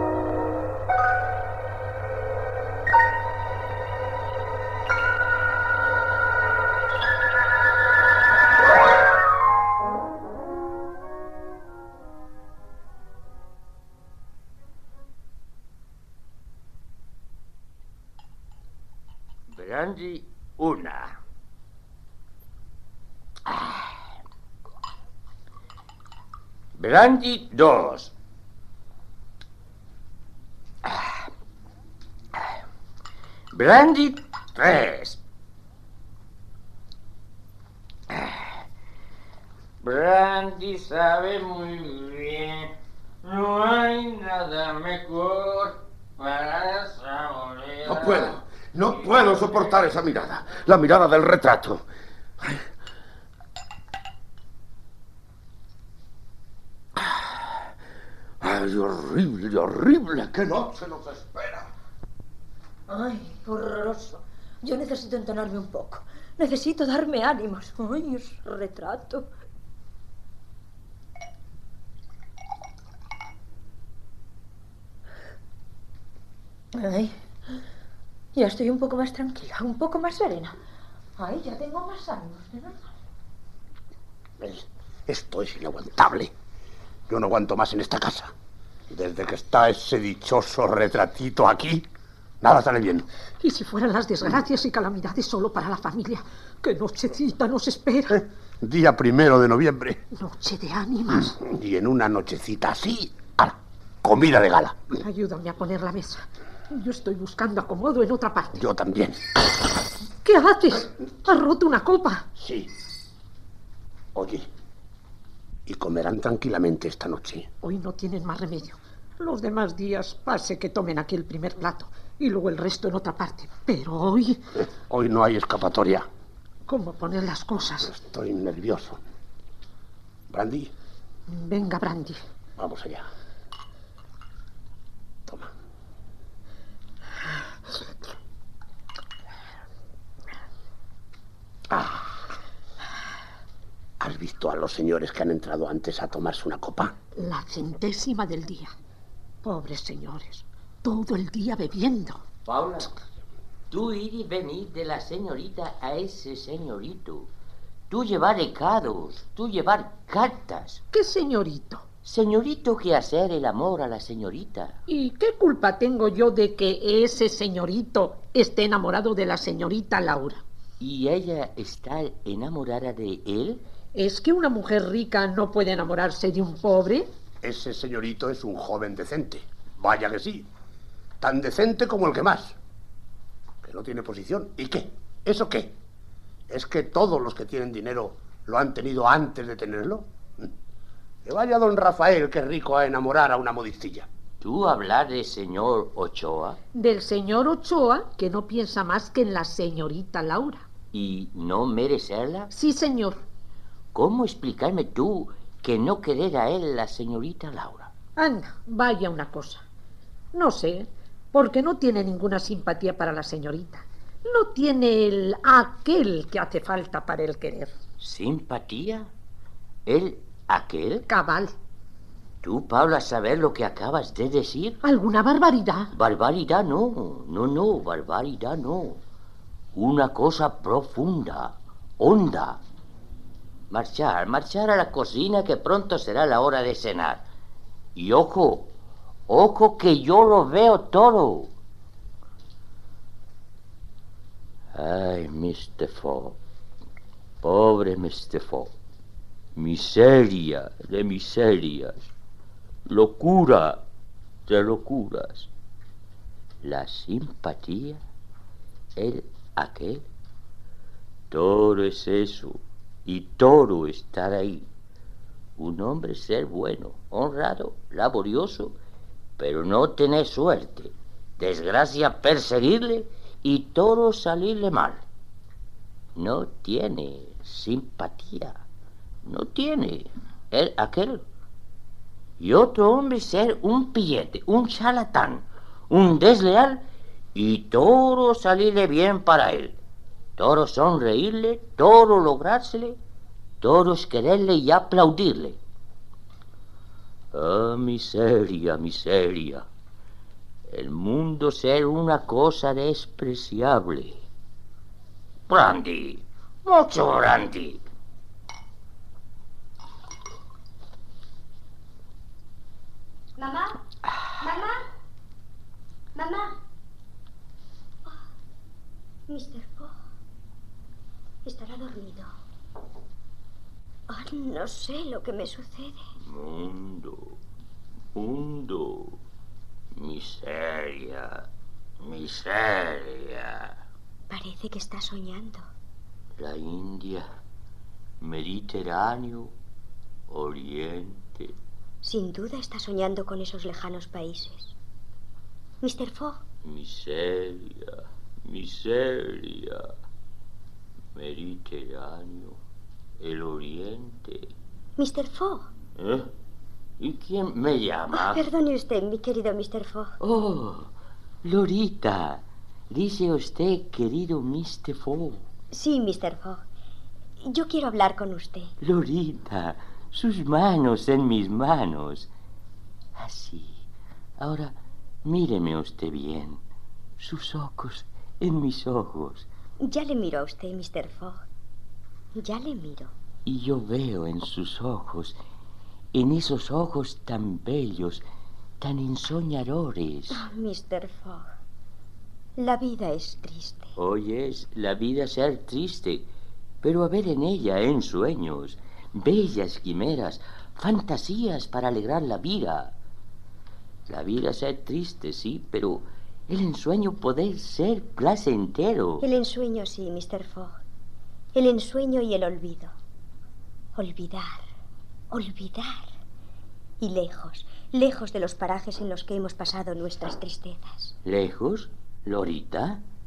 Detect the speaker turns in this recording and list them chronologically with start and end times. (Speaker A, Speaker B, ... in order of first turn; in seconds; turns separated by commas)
Speaker A: 19.5-21.1, Speaker A: 23.4-23.9, Speaker A: 26.8-28.1, Speaker A: 30.9-31.2, Speaker A: 33.5-35.2, Speaker A: 38.1-38.4, Speaker A: 39.8-42.7, Speaker A: 43.2-48.2, Speaker B: 47.9-51.8, Speaker B: 58.4-61.7, Speaker C: 62.9-69.2, Speaker C: 78.4-80.5, Speaker C: 81.2-82.7, Speaker D: 84.4-86.3, Speaker D: 87.1-88.3, Speaker D: 88.9-91.9, Speaker D: 92.4-93.0, Speaker E: 93.4-98.2, Speaker D: 98.1-100.0, Speaker E: 100.1-101.3, Speaker D: 101.2-105.0, Speaker E: 105.0-108.6, Speaker D: 108.5-109.2, Speaker E: 110.2-112.2, Speaker D: 112.4-112.7, Speaker D: 114.1-114.5, Speaker D: 115.7-117.5, Speaker E: 117.6-124.4, Speaker D: 124.8-126.1, Speaker E: 126.7-127.9, Speaker D: 127.8-129.0, Speaker D: 130.3-130.7, Speaker E: 131.3-132.2, Speaker D: 132.6-133.1, Speaker D: 141.7-142.1, Speaker D: 144.0-146.9, Speaker E: 147.2-148.7, Speaker E: 149.4-152.2, Speaker A: 152.4-152.9, Speaker A: 153.7-157.3, Speaker A: 157.9-160.8, Speaker E: 160.9-161.8, Speaker A: 162.1-164.8, Speaker E: 164.9-170.4, Speaker A: 170.8-173.6, Speaker E: 173.9-177.1, Speaker D: 177.4-180.5, Speaker D: 181.2-182.6, Speaker D: 183.6-185.7, Speaker D: 186.5-190.5, Speaker D: 191.2-194.1, Speaker A: 194.4-196.6, Speaker E: 196.7-200.6, Speaker A: 200.9-202.5, Speaker E: 202.5-203.2, Speaker A: 203.9-207.9, Speaker E: 208.2-209.6, Speaker E: 210.3-217.7, Speaker A: 218.0-219.1, Speaker A: 219.9-221.1, Speaker E: 221.1-221.5, Speaker A: 222.4-224.8, Speaker E: 224.8-225.9, Speaker A: 225.9-229.0, Speaker A: 229.7-232.6, Speaker A: 233.7-237.2, Speaker A: 237.9-238.7, Speaker A: 239.3-241.5, Speaker A: 244.7-246.4, Speaker A: 247.4-248.7, Speaker A: 249.6-252.1, Speaker A: 252.9-253.8, Speaker A: 254.5-255.5, Speaker A: 256.6-258.0, Speaker A: 258.9-260.1, Speaker A: 261.3-264.7, Speaker A: 265.6-268.8, Speaker A: 269.4-275.0, Speaker A: 276.1-278.6, Speaker A: 279.2-281.2, Speaker A: 282.4-286.8, Speaker A: 287.4-289.8, Speaker A: 290.4-293.0, Speaker A: 293.6-295.6, Speaker A: 297.3-299.6, Speaker A: 300.7-304.2, Speaker A: 305.5-307.8, Speaker F: 313.4-313.8, Speaker F: 314.4-314.8, Speaker F: 316.1-316.6, Speaker F: 319.3-319.9, Speaker F: 321.4-322.3, Speaker F: 324.1-326.0, Speaker A: 326.2-327.4, Speaker A: 328.1-329.2, Speaker A: 329.9-331.4, Speaker A: 332.0-333.7, Speaker F: 334.3-335.6, Speaker A: 336.4-337.3, Speaker A: 338.2-339.5, Speaker A: 340.3-341.5, Speaker F: 342.0-344.7, Speaker F: 345.8-346.4, Speaker A: 346.6-349.9, Speaker A: 351.1-352.6, Speaker A: 353.2-354.5, Speaker F: 355.0-355.6, Speaker A: 356.0-356.3, Speaker A: 357.0-358.4, Speaker F: 358.1-360.1, Speaker A: 360.2-360.9, Speaker A: 361.4-365.4, Speaker F: 365.7-366.6, Speaker F: 367.4-368.7, Speaker A: 368.8-372.3, Speaker A: 373.1-373.8, Speaker A: 374.4-376.6, Speaker A: 377.2-379.5, Speaker F: 379.8-381.4, Speaker F: 382.4-383.1, Speaker A: 383.4-385.4, Speaker A: 386.1-388.2, Speaker A: 388.8-390.4, Speaker F: 390.3-391.5, Speaker F: 392.6-393.9, Speaker A: 393.9-396.3, Speaker A: 396.8-402.9, Speaker A: 404.1-409.2, Speaker F: 409.2-410.7, Speaker F: 411.5-412.9, Speaker F: 413.9-414.6, Speaker F: 415.3-416.1, Speaker F: 417.0-421.1, Speaker A: 421.2-423.0